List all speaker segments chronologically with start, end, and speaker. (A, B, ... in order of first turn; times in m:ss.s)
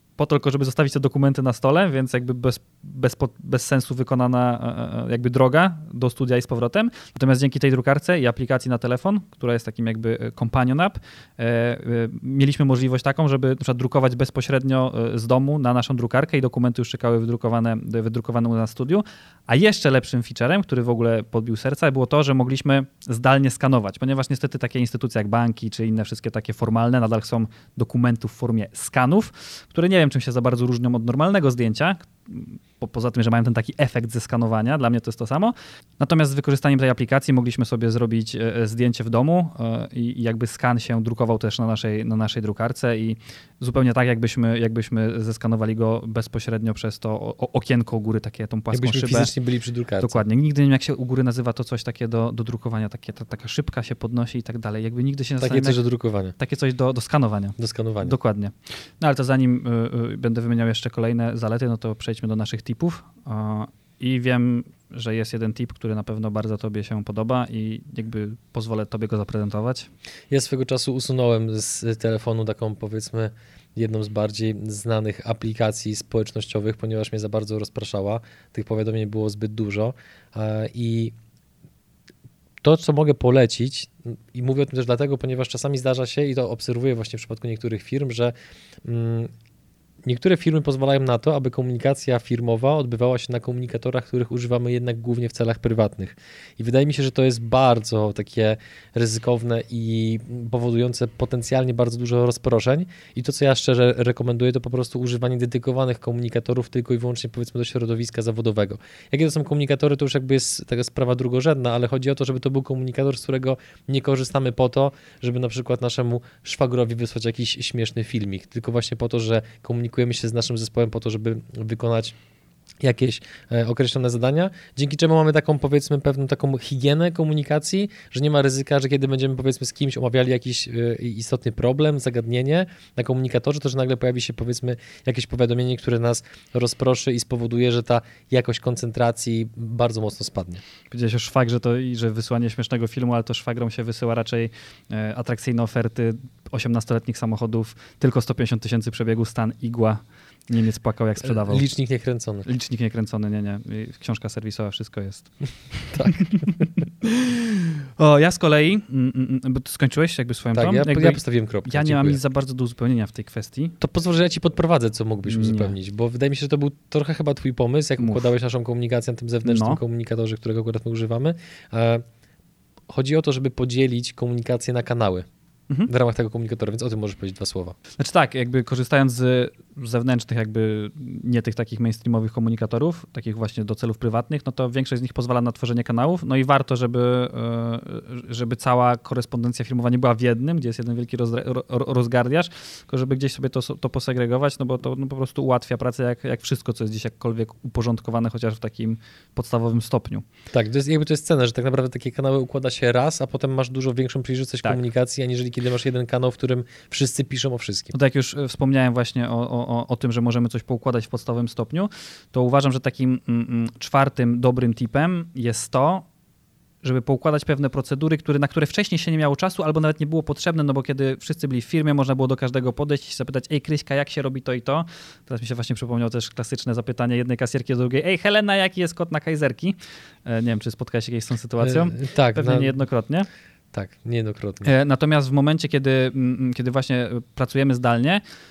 0:00.2-0:49.3 A
0:48.7-0:50.2 B
0:50.0-0:55.8 A
0:55.4-0:56.4 B
0:56.4-1:09.9 A
0:57.6-0:58.2 B
1:10.3-1:21.1 B
1:22.6-1:29.3 B
1:30.0-2:02.2 B
2:02.8-2:20.6 B
2:20.9-2:31.7 A
2:31.2-2:32.5 B
2:32.5-2:43.8 A
2:35.9-2:36.5 B
2:40.5-2:42.2 B
2:43.8-2:52.0 B
2:45.3-2:45.8 A
2:48.0-2:48.3 A
2:49.4-2:49.8 A
2:52.9-2:55.3 B
2:55.9-2:57.8 B
2:58.0-3:20.2 A
3:20.5-3:27.9 B
3:27.9-3:36.1 A
3:36.8-3:53.3 A
3:51.6-3:52.8 B
3:53.7-3:54.7 B
3:54.6-3:58.2 A